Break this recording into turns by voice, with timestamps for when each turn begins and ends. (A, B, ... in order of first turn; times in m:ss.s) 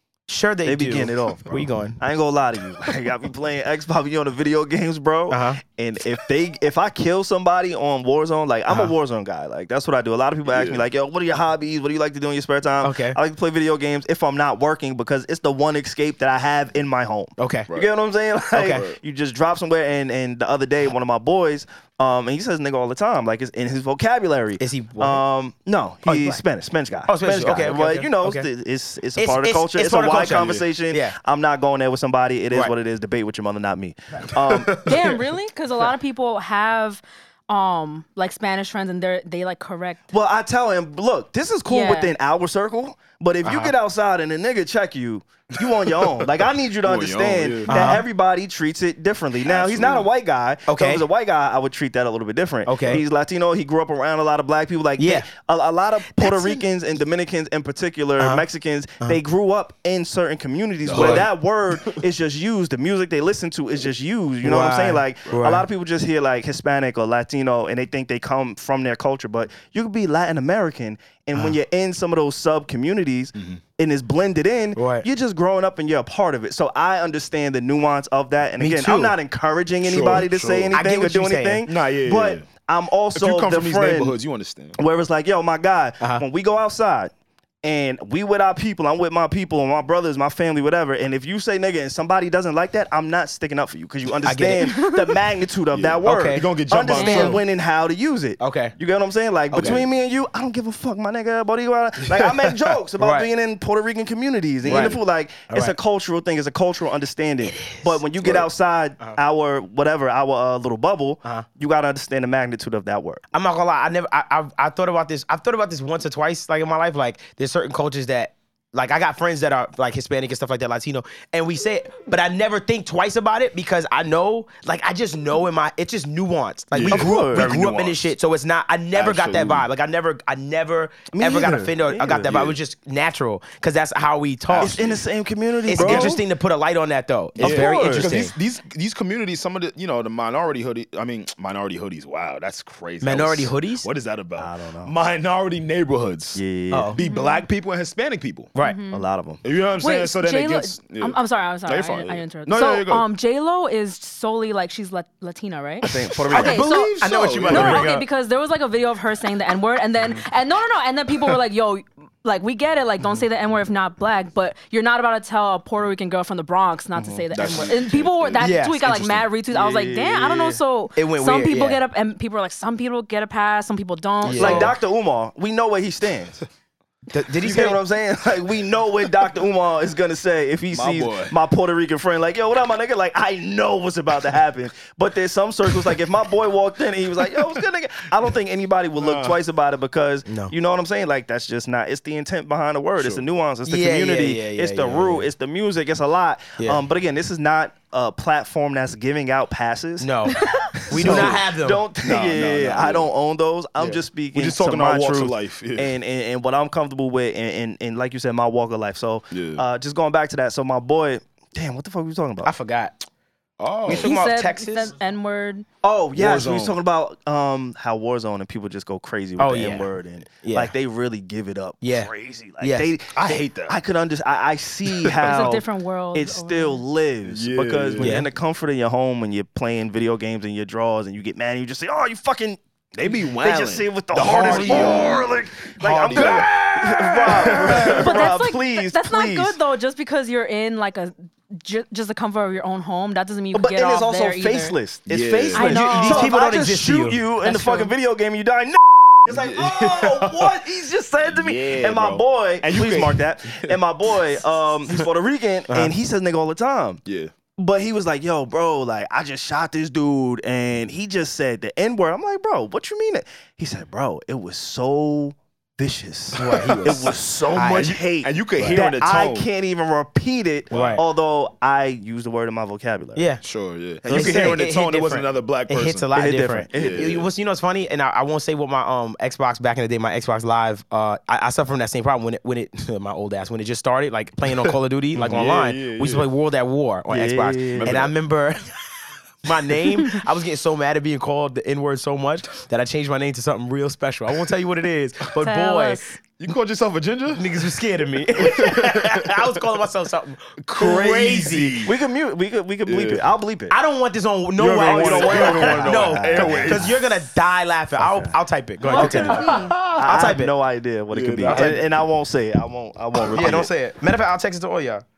0:00.3-0:02.0 A
0:00.6-0:34.8 B
0:05.3-0:05.6 A
0:08.7-0:08.9 A
0:10.4-0:10.8 C
0:12.8-0:13.2 A
0:17.4-0:17.7 A
0:18.5-0:18.9 A
0:18.6-0:19.0 C
0:24.6-0:25.2 A
0:26.0-0:26.4 A
0:27.1-0:28.5 A
0:29.2-0:31.2 A
0:34.8-0:40.0 D
0:40.1-1:24.2 B
0:41.7-0:42.1 D
0:43.4-0:43.7 A
0:45.8-0:46.2 C
0:46.8-0:48.0 C
0:47.7-0:48.0 A
0:49.4-0:50.1 C
0:50.7-0:51.0 A
0:52.7-0:53.0 A
0:55.0-0:55.3 A
0:56.1-0:56.6 A
0:58.2-0:58.4 A
1:00.9-1:01.3 C
1:00.9-1:01.3 A
1:04.4-1:05.7 A
1:14.8-1:15.1 A
1:18.6-1:19.2 A
1:19.8-1:20.8 C
1:20.7-1:21.6 A
1:21.6-1:22.5 C
1:23.1-1:24.8 C
1:24.8-1:27.1 B
1:27.6-1:53.2 B
1:34.2-1:34.8 A
1:34.6-1:35.0 D
1:35.7-1:37.4 C
1:36.0-1:36.5 A
1:36.9-1:37.4 D
1:38.4-1:38.7 A
1:39.5-1:39.8 A
1:39.6-1:39.8 C
1:43.0-1:43.3 A
1:44.6-1:45.0 C
1:44.6-1:45.8 A
1:47.5-1:47.9 A
1:48.2-1:48.5 C
1:53.3-2:14.8 A
2:06.7-2:08.1 C
2:06.8-2:07.6 B
2:08.9-2:09.7 C
2:11.1-2:12.4 B
2:12.1-2:12.6 C
2:14.5-2:15.0 C
2:14.6-2:16.2 B
2:15.7-2:18.3 A
2:15.7-2:16.2 C
2:17.4-2:26.4 C
2:17.4-2:18.2 B
2:23.0-2:23.9 A
2:24.4-2:25.0 B
2:26.4-2:27.0 B
2:26.7-2:27.0 A
2:26.9-2:28.5 C
2:27.0-2:27.5 D
2:28.6-2:29.0 D
2:28.9-2:29.4 B
2:29.4-2:33.0 C
2:29.8-2:54.8 D
2:35.8-2:36.7 B
2:36.3-2:37.9 C
2:36.3-2:38.1 A
2:47.0-2:47.2 B
2:47.3-2:49.2 C
2:48.4-2:49.0 A
2:49.5-2:50.6 B
2:51.0-2:51.8 A
2:54.2-2:54.8 A
2:54.4-2:56.4 B
2:57.1-2:57.8 A
2:57.4-3:20.1 B
3:00.7-3:01.4 C
3:09.0-3:09.4 C
3:10.3-3:10.5 A
3:13.0-3:13.2 C
3:13.6-3:15.3 A
3:16.6-3:16.8 A
3:20.0-3:21.8 A
3:20.3-3:20.7 D
3:20.9-3:32.5 B
3:20.9-3:21.5 C
3:22.0-3:23.1 C
3:23.8-3:25.9 C
3:29.3-3:29.6 C
3:32.4-3:33.0 A
3:33.6-3:34.1 C
3:33.8-3:34.9 A
3:33.9-3:35.7 D
3:35.8-3:52.6 B
3:36.2-3:36.8 C
3:39.4-3:40.7 A
3:41.8-3:42.9 A
3:43.1-3:43.8 C
3:45.0-3:45.3 C
3:45.2-3:46.8 D
3:47.3-3:48.2 C
3:48.0-3:48.3 A
3:53.0-3:58.2 C
3:53.4-3:59.6 B
3:54.3-3:55.2 A
3:56.0-3:56.5 A
3:57.9-4:04.8 D
4:03.5-4:17.0 B
4:05.1-4:05.7 C
4:05.5-4:06.4 D
4:05.6-4:07.2 A
4:07.4-4:07.9 D
4:09.3-4:10.6 C
4:11.3-4:13.8 C
4:17.0-4:17.3 C
4:17.6-4:33.3 B
4:26.4-4:28.0 A
4:26.5-4:27.1 C
4:27.8-4:29.5 C
4:28.6-4:28.8 A
4:30.7-4:31.0 A
4:30.7-4:31.0 C
4:33.2-4:33.4 A
4:33.4-4:36.1 C
4:34.0-4:34.7 B
4:34.1-4:48.7 A
4:36.1-4:37.2 B
4:36.7-4:37.3 C
4:45.2-4:46.3 C
4:47.1-4:48.0 B
4:47.8-4:48.1 C
4:49.4-4:56.1 A
4:55.4-4:56.2 D
4:56.4-4:57.6 C
4:57.3-5:01.9 A
4:58.4-4:59.5 C
5:00.6-5:02.0 C
5:01.4-5:03.8 B
5:02.9-5:03.3 C
5:03.7-5:10.5 A
5:04.6-5:07.0 C
5:04.8-5:07.0 B
5:08.0-5:08.4 B
5:08.8-5:09.7 D
5:09.0-5:10.2 C
5:09.0-5:13.7 B
5:11.1-5:11.9 C
5:11.4-5:11.8 A
5:13.2-5:13.7 C
5:13.3-5:15.0 A